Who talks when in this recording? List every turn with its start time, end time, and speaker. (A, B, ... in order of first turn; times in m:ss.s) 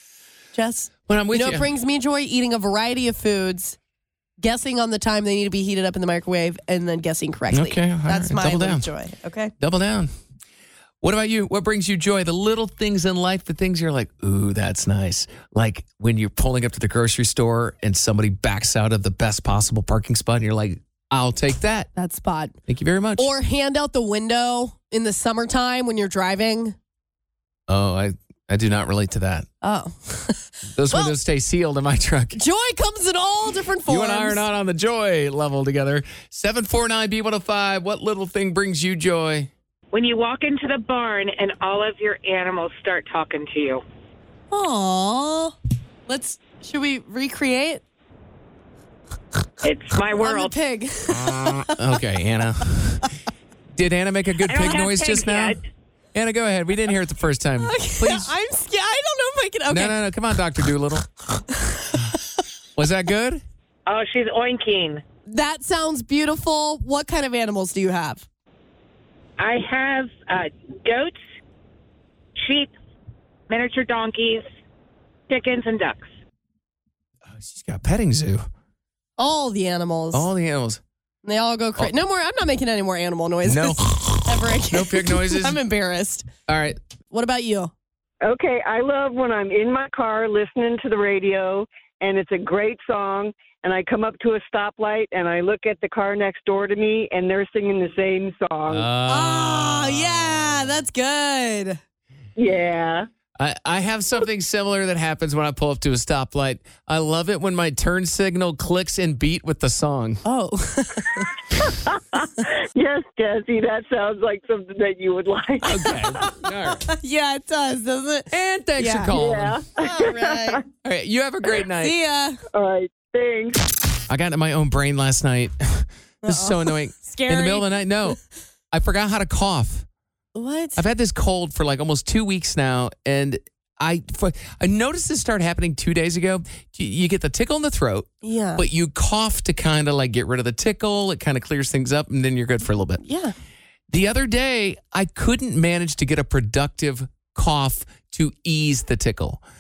0:00.6-0:03.8 A
0:01.1-0:01.7 B
0:04.4-0:09.5 A
0:07.5-0:08.9 B
0:09.6-0:10.1 B
0:11.0-0:21.9 B
0:22.0-0:22.6 A
0:22.7-0:23.3 B
0:23.2-0:26.8 A
0:27.7-0:29.5 B
0:29.6-0:31.2 A
0:30.7-0:32.4 B
0:32.4-0:34.4 A
0:33.9-0:39.5 B
0:39.9-0:43.8 C
0:44.5-0:45.6 A
0:46.1-0:47.8 A
0:49.6-0:50.6 C
0:50.0-0:51.9 A
0:51.8-0:53.1 B
0:53.8-0:55.6 B
0:54.5-0:55.6 C
0:56.1-0:58.3 B
0:57.6-1:00.0 A
0:59.7-1:01.1 B
1:01.6-1:02.1 A
1:02.8-1:03.4 B
1:03.9-1:05.0 C
1:05.3-1:08.2 A
1:09.4-1:11.2 C
1:12.4-1:12.7 C
1:13.5-1:14.5 C
1:15.3-1:16.1 C
1:17.3-1:18.5 B
1:19.2-1:20.3 A
1:20.1-1:20.8 B
1:21.2-1:26.3 A
1:23.4-1:25.6 B
1:26.5-1:26.8 B
1:27.1-1:27.7 A
1:28.2-1:38.9 D
1:38.7-1:40.8 B
1:39.1-1:41.8 A
1:42.4-1:43.1 D
1:43.4-1:50.2 B
1:50.2-1:51.3 A
1:51.9-1:56.2 D
1:55.6-1:56.9 B
1:56.2-1:59.1 A
1:58.3-1:59.6 B
1:59.1-2:00.6 D
1:59.8-2:00.6 A
2:00.8-2:02.0 B
2:01.8-2:02.4 A
2:02.5-2:03.6 D
2:04.1-2:08.2 B
2:06.2-2:07.8 A
2:08.7-2:09.9 B
2:10.4-2:10.8 A
2:10.8-2:23.0 B
2:18.2-2:18.6 A
2:23.0-2:23.4 A
2:23.9-2:29.4 B